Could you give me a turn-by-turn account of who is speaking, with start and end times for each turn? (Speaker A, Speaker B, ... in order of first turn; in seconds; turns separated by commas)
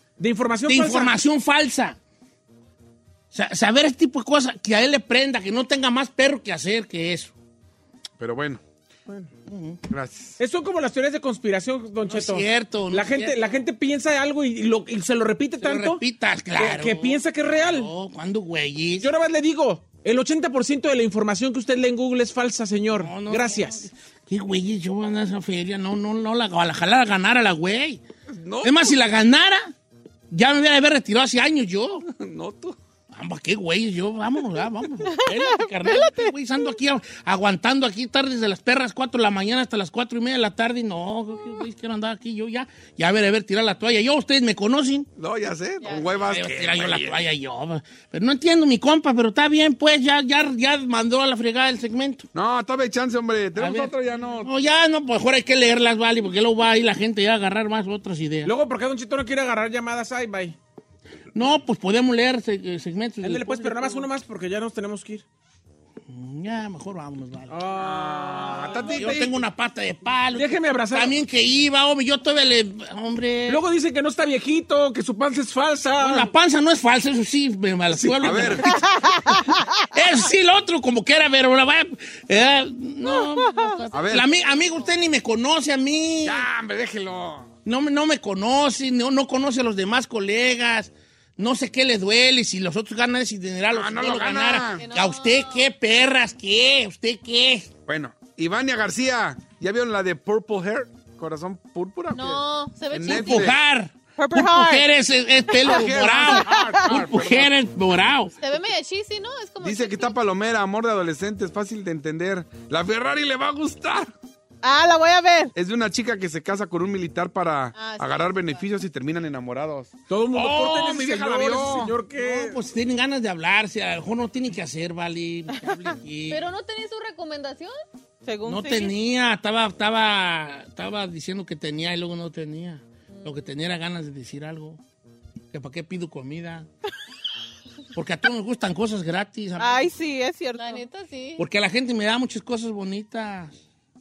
Speaker A: 0.2-1.2, Speaker B: 0.7-2.0, Speaker B: 3.3-7.3, Speaker C: 8.2-8.6, Speaker B: 9.5-9.8, Speaker C: 9.9-10.4, Speaker A: 10.4-16.0, Speaker B: 12.1-13.4, Speaker B: 15.6-19.1, Speaker A: 16.6-17.9, Speaker A: 19.0-23.9, Speaker B: 23.0-28.0, Speaker C: 28.3-28.8, Speaker B: 28.6-29.7, Speaker B: 30.3-32.0, Speaker C: 32.1-32.8, Speaker B: 33.1-45.1, Speaker D: 35.1-36.3, Speaker C: 45.2-47.2, Speaker B: 46.2-52.3, Speaker C: 52.4-54.5, Speaker B: 53.6-58.5, Speaker A: 58.5-60.6, Speaker B: 61.4-64.0, Speaker A: 63.2-65.2, Speaker B: 66.1-67.6, Speaker A: 67.5-69.2, Speaker C: 67.8-69.4, Speaker B: 68.9-73.6, Speaker A: 70.3-71.2, Speaker A: 73.5-76.3, Speaker B: 76.0-78.7, Speaker A: 77.9-78.6, Speaker C: 78.2-78.8, Speaker D: 78.9-79.6, Speaker B: 79.9-86.5, Speaker D: 83.0-83.8, Speaker C: 83.9-84.3, Speaker C: 86.2-87.5, Speaker B: 87.7-97.7, Speaker C: 93.7-94.9, Speaker E: 94.8-95.7, Speaker C: 97.9-103.6, Speaker E: 102.1-103.5, Speaker B: 103.0-108.3, Speaker D: 104.2-104.9, Speaker D: 105.5-107.1, Speaker C: 105.6-107.5, Speaker E: 108.4-110.2, Speaker C: 109.6-114.1, Speaker D: 114.6-115.5, Speaker C: 115.6-119.9, Speaker E: 117.8-118.6, Speaker A: 120.1-122.6, Speaker B: 120.4-121.0, Speaker C: 120.6-121.9, Speaker B: 122.2-126.4, Speaker E: 126.3-127.7, Speaker D: 128.2-128.9, Speaker B: 128.5-134.8, Speaker E: 133.1-133.5, Speaker B: 135.5-136.7, Speaker B: 137.9-139.9, Speaker D: 139.6-140.8, Speaker E: 140.6-141.4, Speaker B: 141.4-143.6